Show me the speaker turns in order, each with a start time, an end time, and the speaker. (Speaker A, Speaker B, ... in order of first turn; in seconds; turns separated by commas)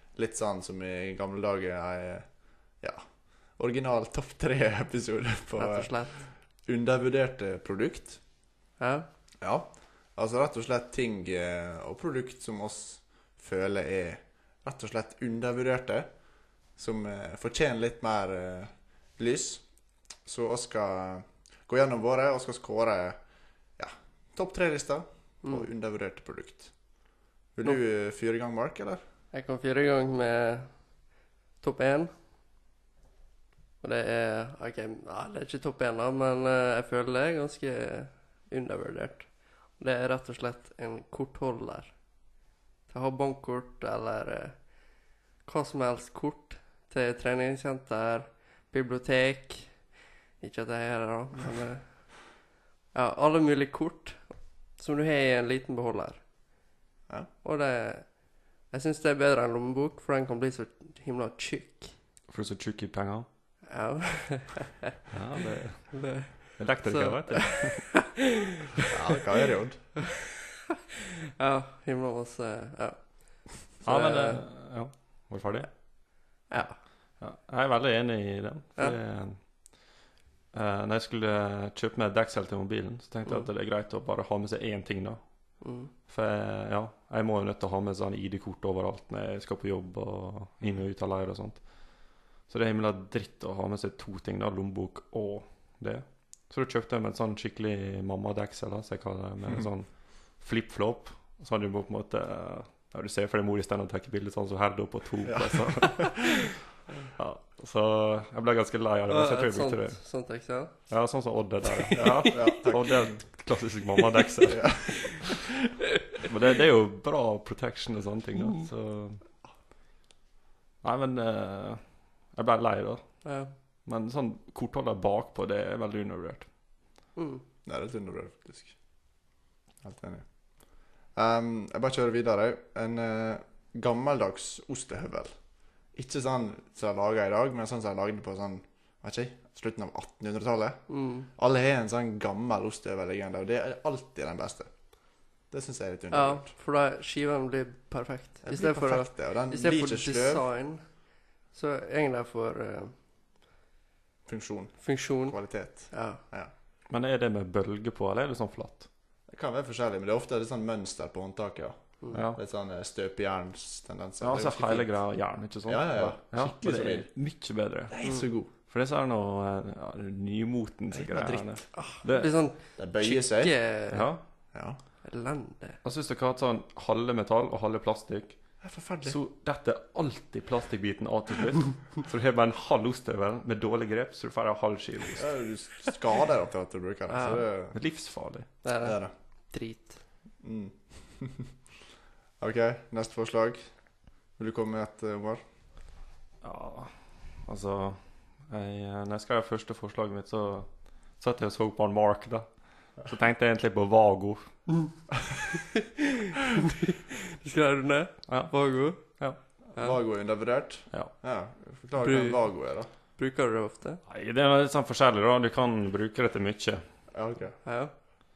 Speaker A: 0.1-6.1, Speaker B: 5.6-6.2, Speaker A: 6.7-8.2, Speaker B: 8.8-9.1, Speaker A: 9.4-16.1, Speaker A: 16.8-19.6, Speaker A: 20.2-23.2, Speaker A: 23.8-26.7, Speaker B: 25.4-25.7, Speaker A: 27.5-29.0, Speaker B: 29.3-30.7, Speaker B: 31.6-32.1, Speaker B: 33.8-41.9, Speaker B: 42.9-44.6, Speaker B: 45.4-49.8, Speaker B: 50.4-52.3, Speaker B: 52.9-56.2, Speaker B: 57.4-61.9, Speaker C: 62.3-63.3, Speaker B: 63.7-64.9, Speaker C: 65.1-67.9, Speaker B: 65.9-69.2, Speaker A: 68.9-69.9, Speaker B: 71.4-74.4, Speaker C: 73.8-75.7, Speaker B: 76.5-76.8, Speaker C: 77.2-79.4, Speaker C: 80.5-85.2, Speaker B: 85.6-85.9, Speaker C: 86.1-91.7, Speaker C: 92.5-106.5, Speaker A: 105.2-106.5, Speaker C: 107.2-110.0, Speaker B: 109.1-110.7, Speaker C: 110.9-114.7, Speaker B: 111.8-112.5, Speaker A: 111.9-113.2, Speaker A: 114.5-115.5, Speaker C: 116.2-119.2, Speaker C: 120.8-123.2, Speaker B: 123.2-123.5, Speaker C: 123.8-126.5, Speaker B: 127.2-127.4, Speaker A: 127.7-128.8, Speaker A: 129.8-135.3, Speaker A: 135.9-140.8, Speaker B: 140.9-141.3, Speaker A: 141.3-144.7, Speaker A: 145.5-146.5, Speaker B: 146.1-150.8, Speaker A: 148.4-150.4, Speaker B: 151.5-152.9, Speaker A: 154.3-156.5, Speaker B: 154.8-155.4, Speaker B: 155.9-156.2, Speaker C: 156.9-158.9, Speaker A: 159.3-164.9, Speaker C: 162.1-162.4, Speaker C: 164.2-167.9, Speaker A: 165.7-167.1, Speaker A: 167.9-168.5, Speaker B: 168.0-168.3, Speaker C: 168.7-172.3, Speaker A: 170.9-171.7, Speaker B: 171.8-174.1, Speaker A: 172.8-173.5, Speaker C: 173.9-174.2, Speaker A: 174.5-174.8, Speaker B: 175.0-175.8, Speaker C: 175.8-178.4, Speaker A: 178.6-179.2, Speaker C: 179.0-185.4, Speaker A: 185.2-187.8, Speaker B: 187.1-187.4, Speaker C: 187.7-188.5, Speaker B: 188.6-189.0, Speaker A: 188.8-189.1, Speaker B: 189.5-190.0, Speaker A: 190.4-191.5, Speaker A: 192.4-193.6, Speaker A: 194.4-195.4, Speaker C: 196.4-204.6, Speaker B: 205.5-210.0, Speaker C: 208.3-209.4, Speaker A: 209.7-212.9, Speaker B: 212.0-212.6, Speaker B: 213.1-214.0, Speaker C: 214.1-216.8, Speaker A: 217.1-217.6, Speaker B: 217.7-217.9